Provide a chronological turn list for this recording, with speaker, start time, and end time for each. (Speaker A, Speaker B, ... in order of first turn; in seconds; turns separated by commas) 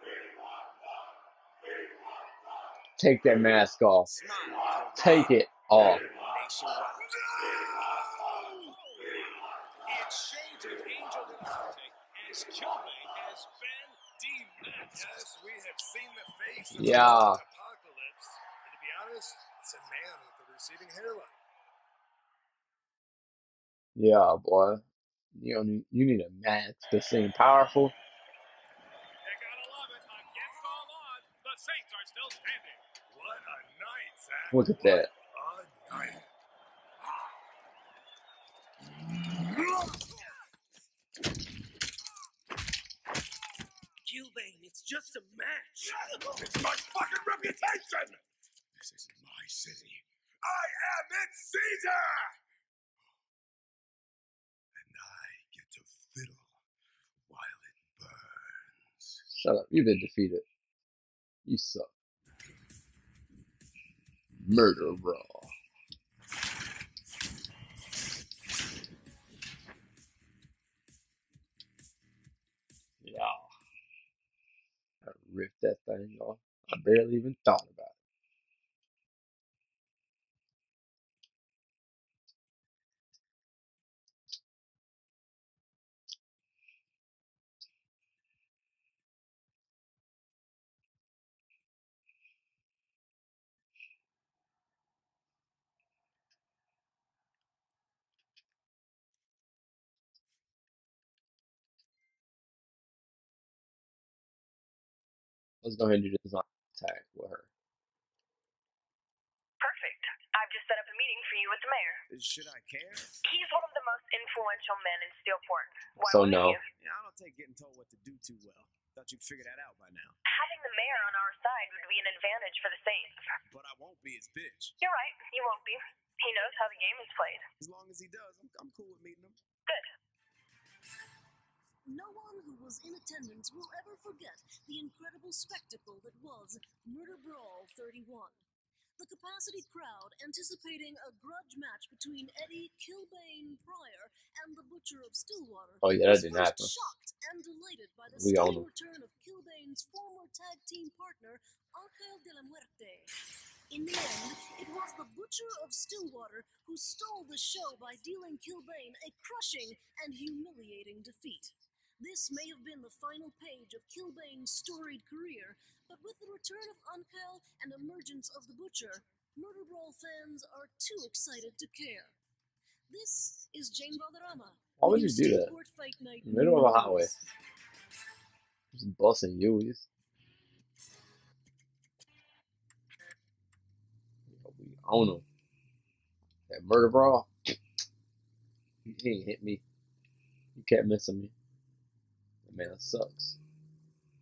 Speaker A: 3.0-4.1, Speaker B: 4.0-7.8, Speaker A: 5.0-6.0, Speaker C: 7.5-8.6, Speaker D: 8.6-9.0, Speaker D: 9.8-15.3, Speaker C: 14.9-21.4, Speaker A: 16.7-17.4, Speaker A: 23.9-27.9, Speaker D: 29.2-32.8, Speaker C: 33.1-36.2, Speaker A: 34.5-35.1, Speaker C: 38.9-40.0, Speaker B: 44.0-46.5, Speaker C: 46.0-48.2, Speaker B: 48.8-50.0, Speaker C: 50.4-52.3, Speaker C: 54.8-56.5, Speaker C: 57.3-58.2, Speaker A: 59.3-60.4, Speaker A: 61.5-61.9, Speaker A: 64.4-65.5, Speaker A: 73.0-73.5, Speaker A: 75.0-77.9, Speaker A: 105.6-107.5, Speaker E: 109.6-112.0, Speaker B: 112.1-113.2, Speaker E: 113.2-116.6, Speaker A: 116.0-116.6, Speaker B: 116.8-120.2, Speaker E: 120.3-123.2, Speaker B: 123.5-124.7, Speaker E: 124.8-127.4, Speaker B: 127.6-129.4, Speaker F: 131.9-138.4, Speaker F: 139.0-153.1, Speaker A: 145.8-146.7, Speaker A: 148.1-148.7, Speaker F: 153.7-172.2, Speaker F: 172.9-177.2, Speaker A: 174.8-175.5, Speaker A: 176.2-177.1, Speaker A: 178.7-179.9, Speaker A: 184.3-185.2, Speaker A: 186.5-187.5, Speaker A: 188.8-189.6, Speaker A: 190.5-191.3, Speaker A: 192.4-193.4